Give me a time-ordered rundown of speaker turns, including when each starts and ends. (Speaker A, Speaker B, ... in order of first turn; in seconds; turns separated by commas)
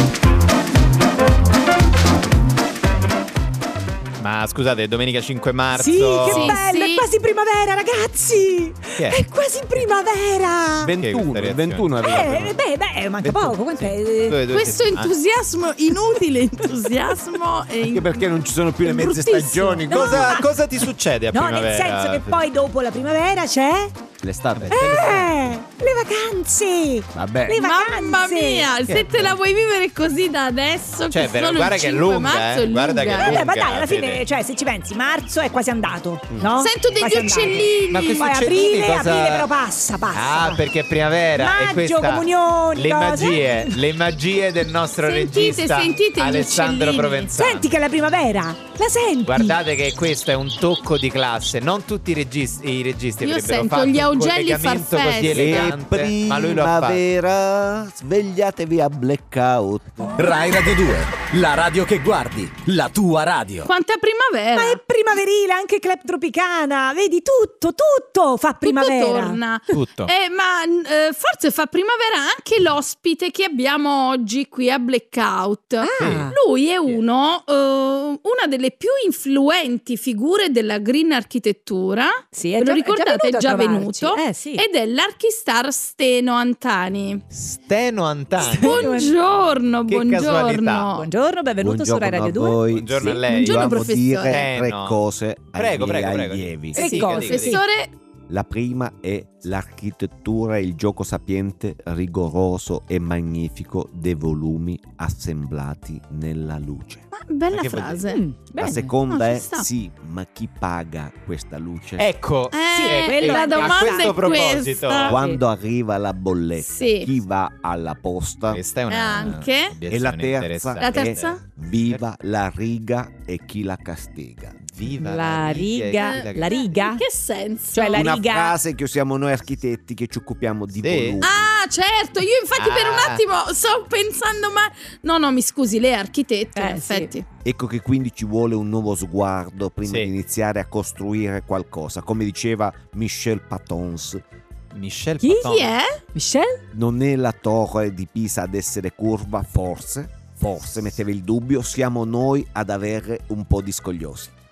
Speaker A: 4.2-6.6, Speaker B: 5.7-10.9, Speaker C: 6.2-7.0, Speaker D: 10.8-12.5, Speaker A: 11.0-12.4, Speaker B: 12.0-14.4, Speaker A: 13.2-15.1, Speaker C: 14.5-18.2, Speaker D: 17.8-20.4, Speaker C: 18.8-20.4, Speaker A: 19.9-22.4, Speaker B: 19.9-20.5, Speaker B: 21.3-23.9, Speaker D: 24.2-25.0, Speaker A: 24.5-25.6, Speaker B: 24.7-28.7, Speaker D: 27.1-27.6, Speaker C: 27.6-33.4, Speaker A: 28.9-29.4, Speaker A: 31.1-34.2, Speaker B: 33.1-40.6, Speaker C: 36.5-38.2, Speaker A: 37.5-39.5, Speaker A: 40.1-47.7, Speaker B: 41.4-43.7, Speaker C: 45.0-47.3, Speaker B: 47.3-49.6, Speaker A: 49.2-57.0, Speaker C: 53.2-55.7, Speaker D: 55.3-60.2, Speaker E: 60.1-63.7, Speaker C: 63.6-64.8, Speaker B: 64.5-69.4, Speaker C: 68.6-87.2, Speaker A: 69.7-70.1, Speaker B: 75.8-76.4, Speaker A: 76.0-76.2, Speaker B: 82.3-84.7, Speaker A: 87.3-88.9, Speaker C: 88.4-91.1, Speaker B: 88.4-89.1, Speaker A: 89.9-90.9, Speaker B: 90.9-92.6, Speaker D: 91.6-96.8, Speaker A: 92.7-95.0, Speaker C: 93.2-94.4, Speaker A: 95.5-97.6, Speaker B: 96.7-97.6, Speaker C: 96.8-97.9, Speaker D: 98.3-107.0, Speaker C: 107.1-108.2, Speaker A: 107.5-108.1, Speaker B: 108.1-108.9, Speaker D: 108.6-112.1, Speaker C: 109.1-109.7, Speaker A: 112.0-115.2, Speaker C: 112.5-115.2, Speaker B: 112.7-114.4, Speaker D: 115.0-118.6, Speaker C: 116.6-117.1, Speaker A: 118.5-121.4, Speaker C: 118.9-119.8, Speaker D: 119.9-124.6, Speaker C: 120.8-121.4, Speaker A: 124.6-126.6, Speaker B: 125.0-127.0, Speaker C: 126.0-128.1, Speaker B: 127.7-128.6, Speaker D: 127.9-131.5, Speaker A: 130.8-131.2, Speaker C: 131.2-137.2, Speaker A: 132.6-133.2, Speaker B: 136.5-137.1, Speaker D: 137.4-144.2, Speaker A: 139.8-140.1, Speaker A: 144.7-145.8, Speaker B: 145.2-145.5, Speaker C: 145.4-146.0, Speaker B: 146.1-146.6, Speaker D: 146.7-154.3